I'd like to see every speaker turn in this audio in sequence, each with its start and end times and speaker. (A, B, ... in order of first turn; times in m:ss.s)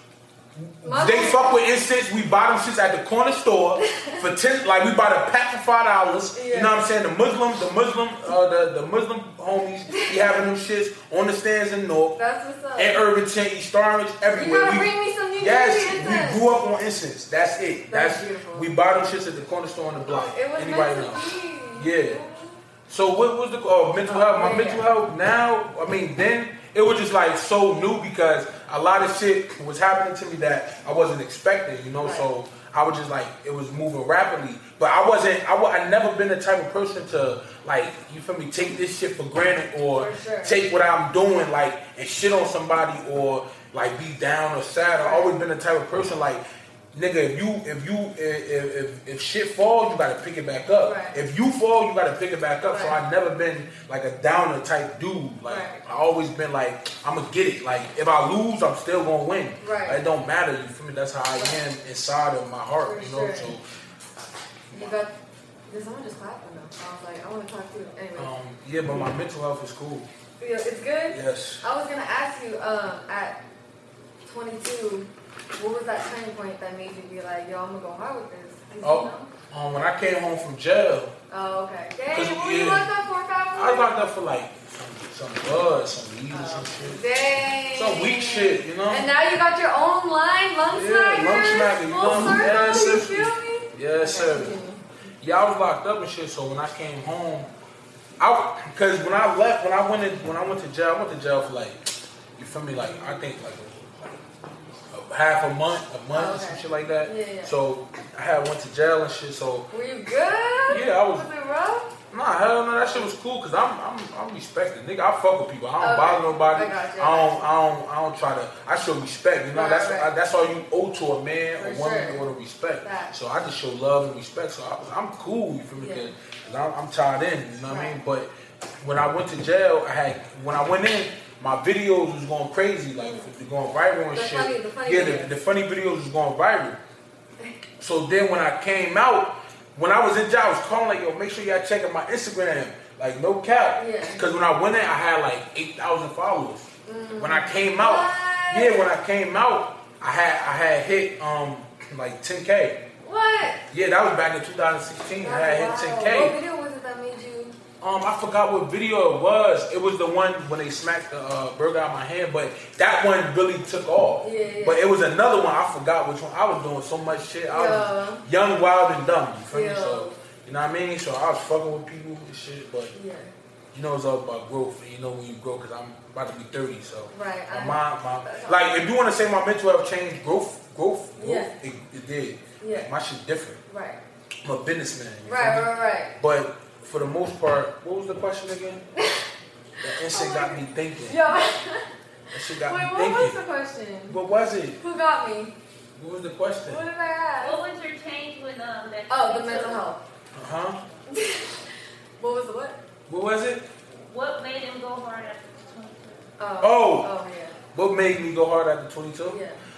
0:00.6-0:12.2 A
0:00.8-0:01.5 B
0:03.9-0:04.2 B
0:06.3-0:06.7 B
0:12.2-0:13.0 B
0:12.8-0:22.2 A
0:14.3-0:16.6 B
0:17.9-0:18.7 B
0:20.0-0:22.6 B
0:22.9-0:46.4 A
0:24.1-0:24.8 B
0:32.0-0:32.3 B
0:40.0-0:40.6 B
0:45.0-0:45.3 B
0:46.9-1:03.6 A
0:50.8-0:51.1 B
0:52.7-0:53.0 B
0:55.4-0:55.8 B
0:59.6-1:00.0 B
1:02.8-1:03.6 B
1:04.7-1:05.1 B
1:05.7-1:08.3 B
1:08.2-1:10.1 A
1:08.9-1:09.1 B
1:10.4-1:13.4 B
1:11.1-1:11.6 A
1:14.2-1:19.3 B
1:18.8-1:21.1 A
1:21.3-1:23.9 B
1:22.1-1:22.9 A
1:23.5-1:27.0 A
1:26.3-1:34.8 B
1:27.7-1:29.1 A
1:30.7-1:34.6 A
1:35.2-1:37.5 A
1:38.2-1:41.8 A
1:42.4-1:44.3 A
1:44.9-1:49.7 A
1:46.1-1:47.5 B
1:49.7-1:51.9 B
1:50.7-1:51.3 A
1:52.1-2:08.3 A
1:52.8-1:53.1 B
1:55.8-1:57.5 B
1:59.5-2:00.1 B
2:01.6-2:02.2 B
2:02.8-2:03.1 B
2:05.8-2:06.1 B
2:07.7-2:08.0 B
2:08.8-2:16.8 A
2:13.0-2:13.2 B
2:14.1-2:15.3 B
2:17.8-2:32.8 A
2:23.8-2:24.2 B
2:26.8-2:28.9 B
2:33.0-2:33.6 B
2:33.7-2:36.4 A
2:35.2-2:37.5 B
2:37.8-2:52.9 A
2:44.2-2:44.8 B
2:47.5-2:48.2 B
2:49.5-2:50.1 B
2:52.9-2:53.3 B
2:53.7-3:03.6 A
2:57.1-2:58.6 B
3:01.2-3:01.5 B
3:02.6-3:02.9 B
3:03.7-3:04.0 B
3:04.4-3:08.8 A
3:05.2-3:06.2 B
3:09.0-3:09.2 B
3:09.8-3:11.2 A
3:10.1-3:11.8 B
3:12.3-3:13.4 A
3:12.6-3:14.2 B
3:14.1-3:14.8 A
3:14.8-3:15.5 B
3:16.0-3:16.8 A
3:16.7-3:17.6 B
3:17.4-3:19.8 C
3:19.1-3:20.0 B
3:20.3-3:20.8 A
3:21.1-3:21.6 B
3:22.2-3:22.8 B
3:23.1-3:23.6 A
3:24.0-3:26.2 C
3:26.4-3:27.6 B
3:26.6-3:27.1 A
3:27.7-3:29.4 A
3:29.3-3:29.6 B